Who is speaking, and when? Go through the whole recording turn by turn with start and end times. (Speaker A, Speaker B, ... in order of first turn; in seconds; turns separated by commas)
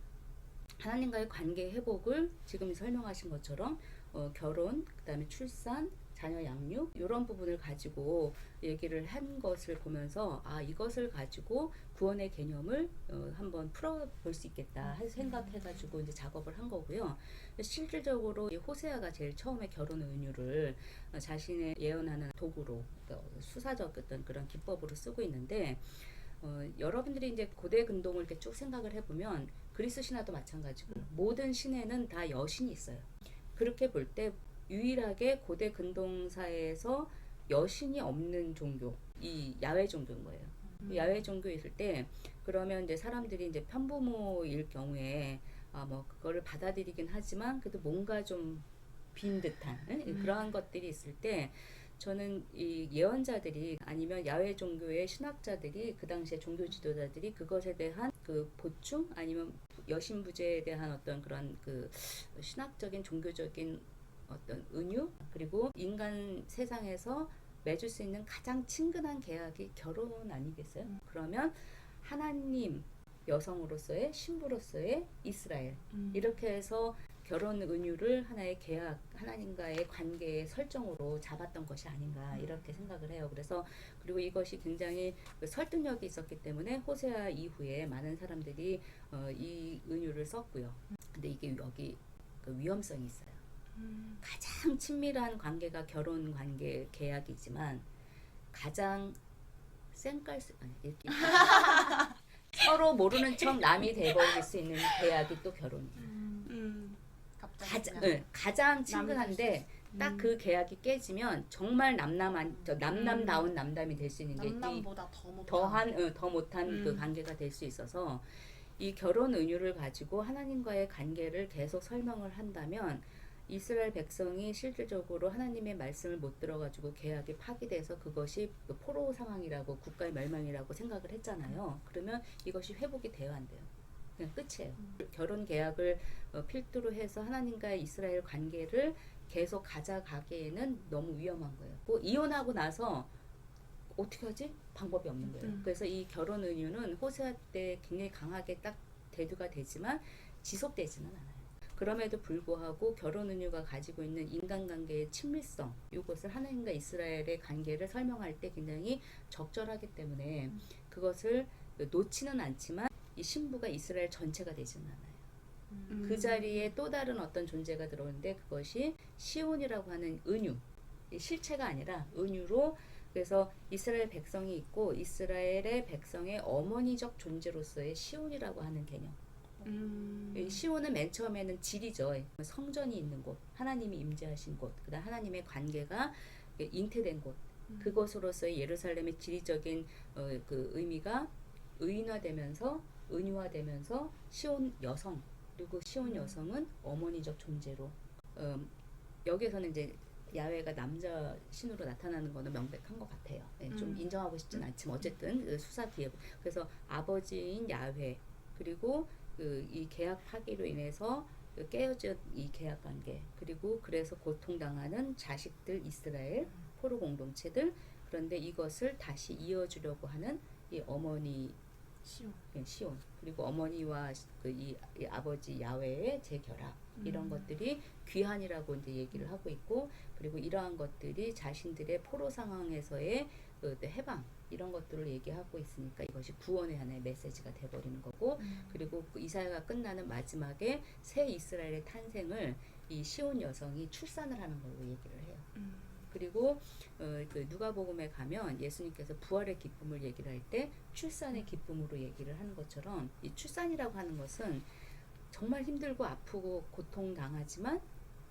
Speaker A: 0.8-93.4, Speaker B: 15.2-15.6, Speaker B: 40.8-41.1, Speaker B: 75.9-76.4, Speaker B: 82.3-82.8, Speaker B: 93.8-94.2, Speaker A: 94.2-97.9, Speaker A: 98.5-99.2, Speaker A: 99.9-106.1, Speaker C: 106.0-106.5, Speaker B: 106.5-107.0, Speaker C: 107.4-108.2, Speaker A: 107.6-114.9, Speaker B: 108.9-110.3, Speaker C: 112.5-112.8, Speaker B: 112.9-113.5, Speaker C: 114.3-115.9, Speaker A: 115.5-143.1, Speaker B: 116.7-117.1, Speaker A: 143.9-165.2, Speaker B: 145.2-145.7, Speaker C: 165.7-166.3, Speaker B: 165.9-166.6, Speaker A: 166.0-179.2, Speaker B: 179.6-180.6, Speaker A: 180.3-198.7, Speaker B: 187.7-188.0, Speaker B: 196.0-196.4, Speaker A: 199.2-221.6, Speaker B: 203.7-204.1, Speaker A: 222.5-245.5, Speaker B: 227.0-227.5, Speaker B: 238.4-238.9, Speaker B: 245.6-246.1, Speaker A: 246.1-254.7, Speaker A: 255.3-257.9